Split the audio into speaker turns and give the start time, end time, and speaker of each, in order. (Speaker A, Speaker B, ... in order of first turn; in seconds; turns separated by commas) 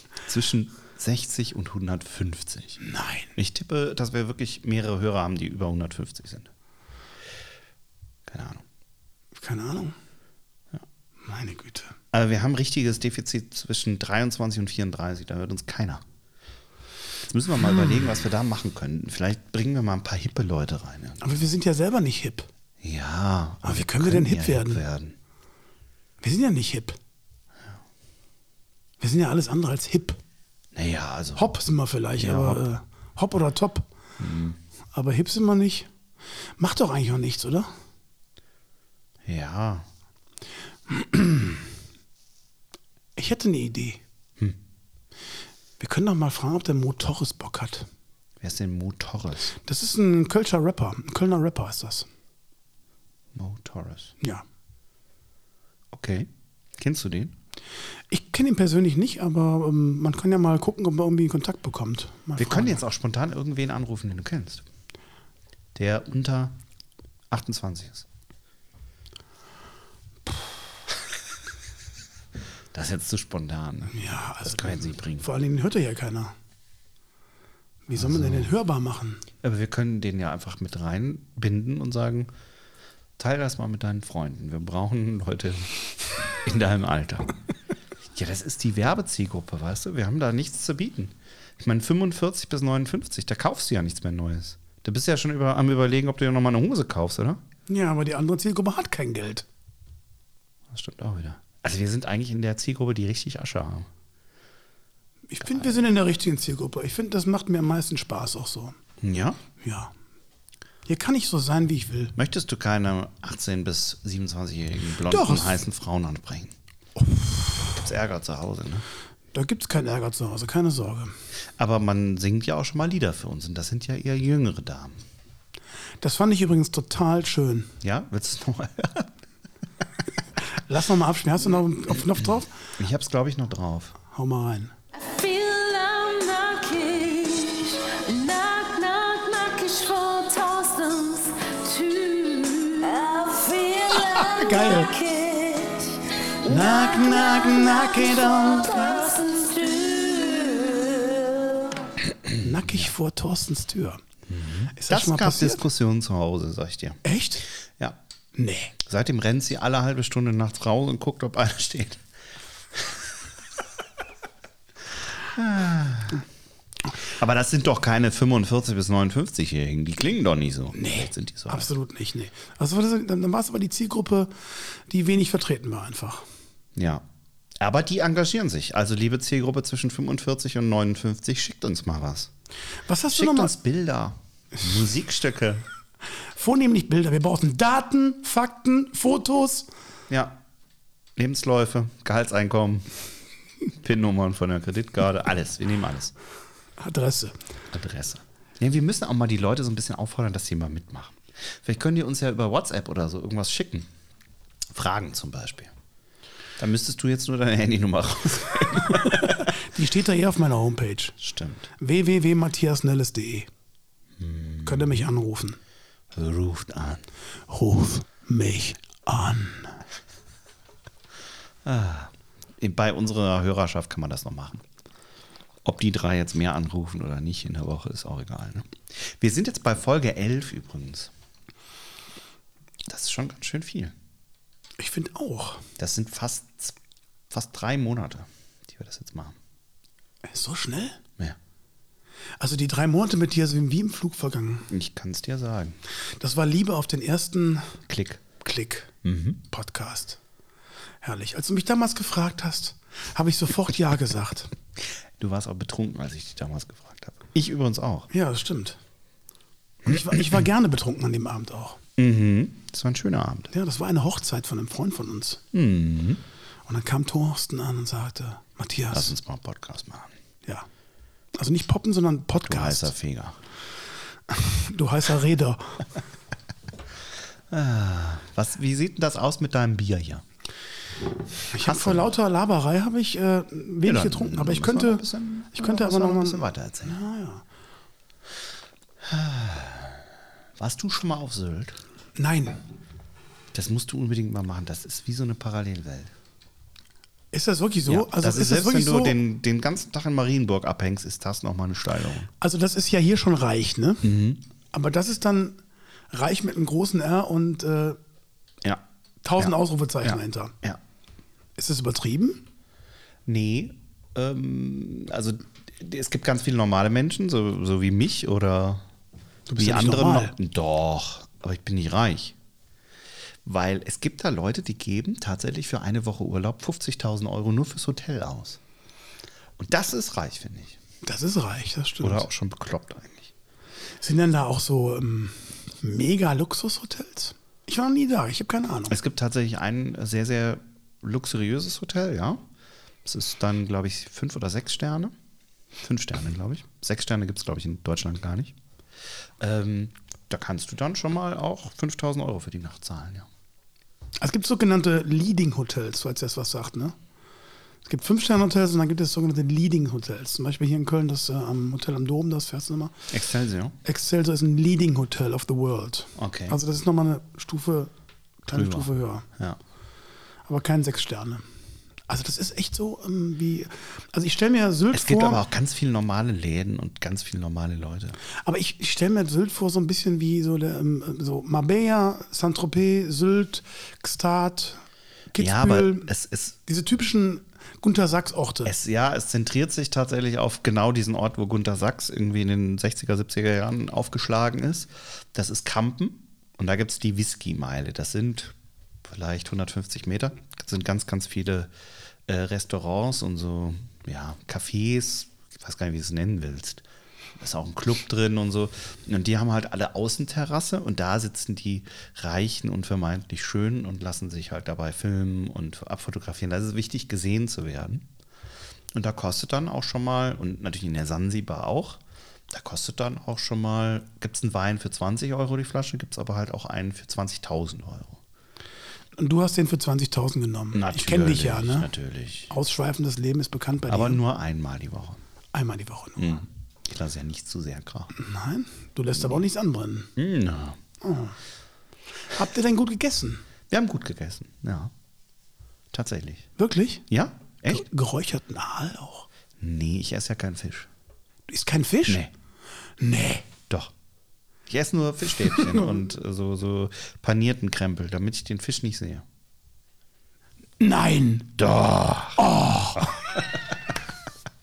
Speaker A: 0.3-2.8, Speaker B: 2.8-3.3, Speaker A: 3.4-6.5, Speaker A: 8.3-8.6, Speaker B: 9.4-9.9, Speaker B: 11.2-11.9, Speaker A: 12.1-16.0, Speaker A: 17.3-21.4, Speaker B: 21.2-22.5, Speaker A: 22.8-25.2, Speaker B: 23.6-24.8, Speaker B: 26.2-27.0, Speaker B: 29.0-30.2, Speaker A: 30.7-31.5, Speaker B: 31.4-33.9, Speaker A: 32.2-32.6, Speaker A: 34.2-34.6, Speaker B: 34.9-35.9, Speaker B: 36.6-37.7, Speaker A: 39.2-39.9, Speaker B: 40.9-41.6, Speaker B: 43.2-44.0, Speaker B: 45.8-47.9, Speaker A: 48.4-49.5, Speaker B: 49.6-52.1, Speaker A: 53.3-54.1, Speaker A: 55.9-57.3, Speaker B: 58.1-62.8, Speaker A: 62.4-64.6, Speaker A: 65.7-66.5, Speaker A: 67.3-68.0, Speaker A: 72.7-75.3, Speaker B: 73.9-76.3, Speaker B: 77.9-79.2, Speaker A: 78.0-78.5, Speaker A: 79.4-82.3, Speaker A: 83.2-85.7, Speaker A: 86.3-87.3, Speaker A: 88.1-97.4, Speaker B: 97.7-99.5, Speaker A: 100.7-103.9, Speaker B: 105.3-108.7, Speaker A: 109.0-109.4, Speaker B: 109.6-109.9, Speaker B: 110.9-112.1, Speaker A: 112.2-116.5, Speaker B: 115.1-115.6, Speaker B: 117.0-117.5, Speaker A: 117.8-118.8, Speaker B: 119.3-121.1, Speaker A: 121.6-125.0, Speaker B: 126.0-127.7, Speaker A: 127.8-129.1, Speaker B: 130.6-132.5, Speaker A: 132.8-134.0, Speaker B: 134.1-134.7, Speaker C: 134.9-151.9, Speaker B: 144.0-144.9, Speaker B: 146.4-148.9, Speaker B: 152.4-154.0, Speaker A: 154.3-157.0, Speaker B: 154.7-155.6, Speaker B: 157.0-157.4, Speaker B: 158.3-158.7, Speaker A: 158.8-162.0, Speaker A: 162.7-163.0, Speaker A: 165.2-166.3, Speaker A: 167.0-171.7, Speaker B: 170.7-176.3, Speaker A: 176.7-177.1, Speaker A: 177.6-182.3, Speaker B: 182.9-183.6, Speaker A: 183.1-185.7, Speaker B: 186.3-189.7, Speaker A: 190.1-190.4, Speaker A: 191.2-192.9, Speaker A: 193.7-196.1, Speaker B: 196.8-197.3, Speaker A: 197.7-203.9, Speaker A: 204.7-205.7, Speaker A: 206.6-209.6, Speaker B: 209.1-211.2, Speaker A: 211.2-211.7, Speaker B: 211.8-213.5, Speaker A: 214.2-215.0, Speaker B: 214.6-215.6, Speaker A: 216.1-217.1, Speaker B: 217.5-219.8, Speaker A: 221.6-224.6, Speaker A: 225.6-231.1, Speaker A: 232.9-233.9, Speaker B: 234.8-235.6, Speaker A: 235.8-236.8, Speaker A: 237.3-239.4, Speaker B: 240.3-241.0, Speaker B: 242.4-244.7, Speaker A: 244.7-245.8, Speaker B: 246.2-247.8, Speaker A: 247.9-248.2, Speaker B: 248.4-248.9, Speaker A: 249.0-249.4, Speaker B: 249.5-250.2, Speaker B: 251.0-254.5, Speaker A: 255.2-258.1, Speaker B: 258.1-258.8, Speaker B: 259.8-261.8, Speaker A: 262.0-263.5, Speaker B: 263.5-265.4, Speaker A: 265.5-266.2, Speaker B: 266.7-269.1, Speaker A: 268.9-270.1, Speaker B: 271.3-272.9, Speaker A: 272.4-273.4, Speaker B: 274.3-275.9, Speaker A: 277.5-280.2, Speaker B: 281.5-287.4, Speaker A: 281.6-282.1, Speaker A: 283.8-286.9, Speaker A: 289.0-290.1, Speaker A: 290.6-291.8, Speaker B: 292.2-292.6, Speaker A: 293.5-296.1, Speaker B: 297.3-299.2, Speaker A: 297.9-302.3, Speaker B: 302.4-304.1, Speaker A: 304.0-304.4, Speaker B: 304.7-305.6, Speaker B: 306.1-308.0, Speaker B: 309.2-310.6, Speaker A: 309.4-310.8, Speaker B: 311.6-312.4, Speaker A: 313.3-318.8, Speaker B: 319.5-320.3, Speaker A: 319.6-322.4, Speaker A: 323.4-328.6, Speaker A: 329.6-330.8, Speaker B: 331.0-332.3, Speaker A: 332.0-333.3, Speaker B: 334.0-339.0, Speaker A: 338.9-342.4, Speaker A: 343.1-345.1, Speaker A: 345.8-348.6, Speaker A: 349.4-353.3, Speaker B: 354.2-356.9, Speaker B: 357.8-363.1, Speaker A: 363.1-363.8, Speaker B: 363.8-367.9, Speaker A: 366.1-366.6, Speaker B: 368.4-369.3, Speaker A: 368.5-369.6, Speaker B: 370.5-371.4, Speaker B: 372.1-375.4, Speaker A: 374.9-378.2, Speaker B: 378.4-384.8, Speaker B: 385.3-386.1, Speaker A: 385.4-386.6, Speaker B: 386.6-388.7, Speaker A: 388.6-401.7, Speaker A: 402.3-406.8, Speaker A: 407.4-418.1, Speaker A: 418.9-428.2, Speaker B: 429.2-431.9, Speaker A: 430.7-432.5, Speaker B: 432.5-434.2, Speaker A: 433.9-435.2, Speaker B: 435.5-436.4, Speaker A: 436.2-438.1, Speaker B: 438.1-440.1, Speaker A: 440.1-440.8, Speaker B: 441.0-441.4, Speaker B: 442.3-443.4, Speaker A: 443.7-444.9, Speaker A: 445.9-446.5, Speaker B: 446.6-447.1, Speaker A: 447.1-447.8, Speaker B: 447.6-449.3, Speaker A: 449.6-450.9, Speaker B: 451.5-452.2, Speaker B: 453.0-453.5, Speaker A: 454.7-459.3, Speaker B: 455.5-455.8, Speaker B: 460.8-461.6, Speaker A: 461.6-462.4, Speaker B: 462.4-463.2